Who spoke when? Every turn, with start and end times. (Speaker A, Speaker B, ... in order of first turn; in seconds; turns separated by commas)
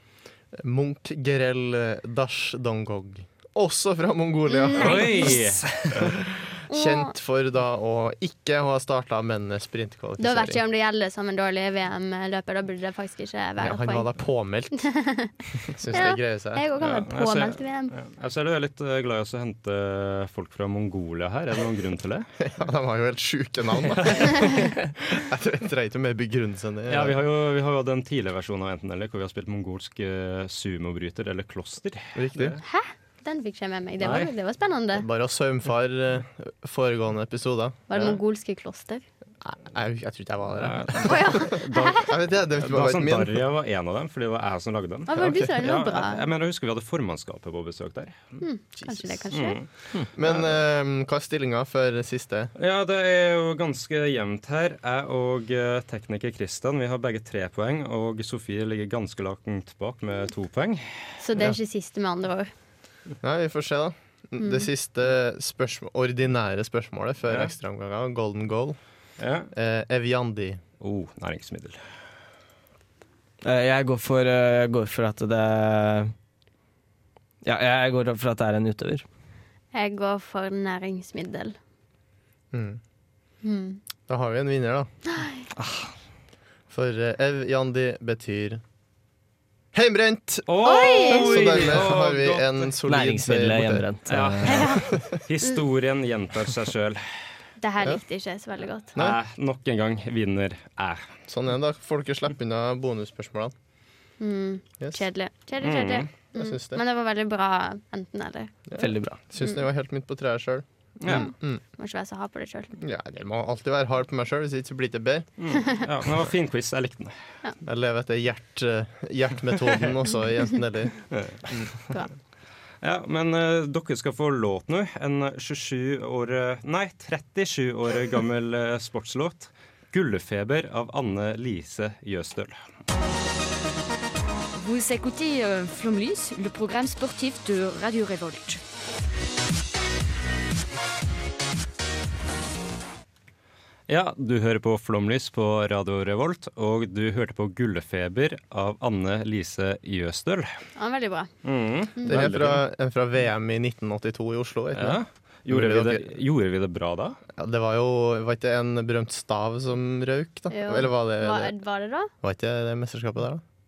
Speaker A: 0.5-5.4, Speaker B: 4.5-5.6, Speaker C: 4.8-6.2, Speaker A: 5.9-10.6, Speaker B: 6.7-7.1, Speaker B: 10.2-14.1, Speaker A: 13.6-14.9, Speaker B: 14.7-15.3, Speaker A: 15.7-16.6, Speaker B: 15.9-17.9, Speaker C: 16.8-22.3, Speaker A: 22.4-27.2, Speaker C: 23.8-24.9, Speaker C: 26.9-32.6, Speaker A: 32.1-32.6, Speaker B: 32.6-35.1, Speaker C: 34.0-34.3, Speaker A: 35.0-38.1, Speaker B: 37.9-39.0, Speaker A: 39.4-43.4, Speaker C: 40.6-48.4, Speaker B: 41.0-42.1, Speaker B: 45.1-46.2, Speaker B: 48.4-49.6, Speaker A: 48.8-49.3, Speaker C: 49.3-50.4, Speaker A: 50.1-52.5, Speaker C: 52.6-61.0, Speaker B: 61.2-62.5, Speaker A: 63.2-68.8, Speaker B: 64.4-64.7, Speaker C: 69.2-69.5, Speaker A: 69.5-70.6, Speaker C: 70.8-71.8, Speaker D: 73.4-76.1, Speaker D: 77.4-79.0, Speaker B: 79.7-81.6, Speaker A: 82.5-82.8, Speaker B: 83.4-83.8, Speaker A: 84.1-84.9, Speaker B: 85.1-85.4, Speaker D: 85.6-85.9, Speaker A: 86.7-88.6, Speaker A: 89.7-93.9, Speaker C: 90.5-92.6, Speaker B: 90.6-91.5, Speaker D: 92.8-94.8, Speaker C: 94.1-97.0, Speaker B: 94.5-94.9, Speaker A: 94.8-95.2, Speaker B: 97.6-98.9, Speaker C: 99.0-101.1, Speaker A: 101.3-103.5, Speaker B: 104.2-108.5, Speaker C: 105.6-106.1, Speaker A: 106.3-106.8, Speaker A: 108.7-111.6, Speaker D: 108.8-109.2, Speaker C: 111.0-111.3, Speaker B: 111.1-112.7, Speaker A: 112.8-115.3, Speaker C: 115.4-117.2, Speaker A: 117.6-121.0, Speaker C: 121.1-121.4, Speaker C: 122.8-132.6, Speaker E: 134.5-138.6, Speaker C: 143.9-150.5, Speaker B: 150.8-151.3, Speaker C: 151.4-152.6, Speaker B: 152.0-152.2, Speaker A: 152.1-156.1, Speaker C: 154.8-157.2, Speaker A: 157.4-161.6, Speaker B: 160.5-162.1, Speaker A: 162.2-163.4